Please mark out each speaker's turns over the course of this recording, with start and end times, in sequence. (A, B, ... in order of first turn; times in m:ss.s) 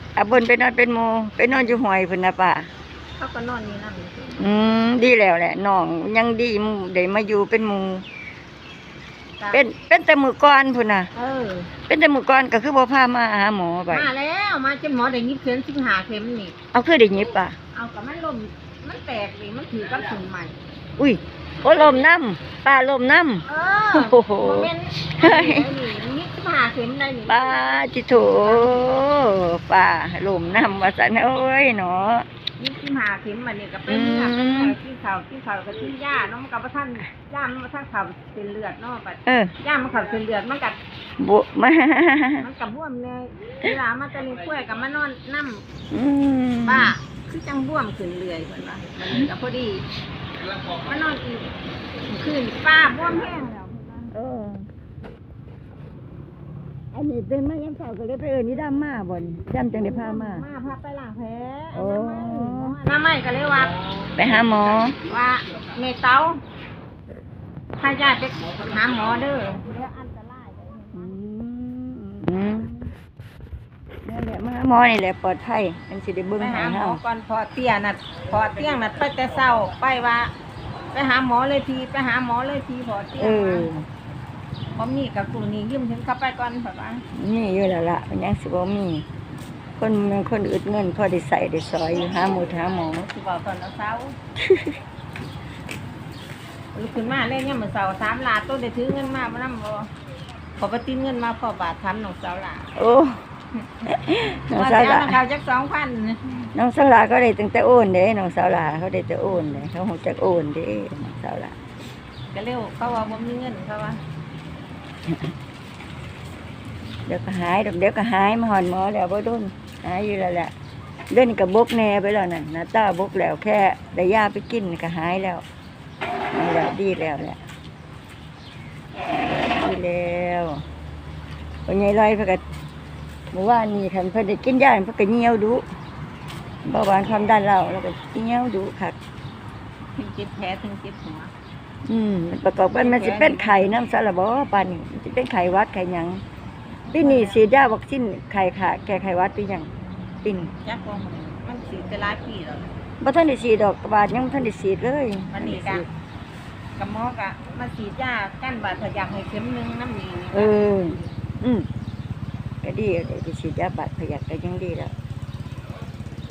0:00.2-0:02.7 A
0:03.2-0:04.6 B
0:04.4-0:08.0 A
0:09.5-0:11.1 A
0:11.1-0:11.7 B
0:11.9-0:14.1 A
0:13.9-0:16.5 B
0:16.7-0:17.6 A
0:17.7-0:20.6 B
0:21.0-0:25.7 A
0:23.5-0:29.0 B
0:27.3-0:32.2 A
0:32.6-0:40.8 B
0:33.9-0:34.8 A
0:39.2-0:39.5 A
0:41.2-0:42.5 A
0:42.4-0:45.6 B
0:45.9-0:46.9 A
0:46.6-0:49.8 B
0:50.8-0:51.5 B
0:52.1-0:54.1 B
0:54.1-0:54.7 A
0:56.9-1:00.4 A
0:59.9-1:03.7 B
1:01.7-1:02.8 A
1:04.2-1:05.0 A
1:05.0-1:06.4 B
1:07.8-1:11.1 B
1:10.9-1:12.9 A
1:14.0-1:17.0 A
1:16.4-1:20.3 B
1:20.9-1:23.7 B
1:23.2-1:23.8 A
1:24.7-1:27.0 B
1:27.1-1:29.0 A
1:29.8-1:33.1 A
1:32.5-1:34.2 B
1:34.4-1:34.8 A
1:36.7-1:39.9 B
1:40.6-1:42.7 B
1:42.8-1:43.2 A
1:43.8-1:45.2 A
1:44.5-1:46.5 B
1:46.5-1:51.6 A
1:52.3-1:54.0 B
1:57.1-2:00.5 A
2:01.1-2:05.4 A
2:06.3-2:07.4 A
2:09.3-2:10.6 A
2:11.7-2:12.4 A
2:13.3-2:15.6 A
2:16.6-2:19.0 A
2:20.0-2:21.3 B
2:21.8-2:26.2 A
2:22.7-2:23.8 B
2:26.9-2:29.7 A
2:27.0-2:27.4 B
2:30.2-2:30.5 A
2:30.6-2:32.7 B
2:33.0-2:35.9 A
2:35.3-2:35.8 B
2:36.8-2:41.1 B
2:40.3-2:41.7 A
2:42.6-2:44.9 A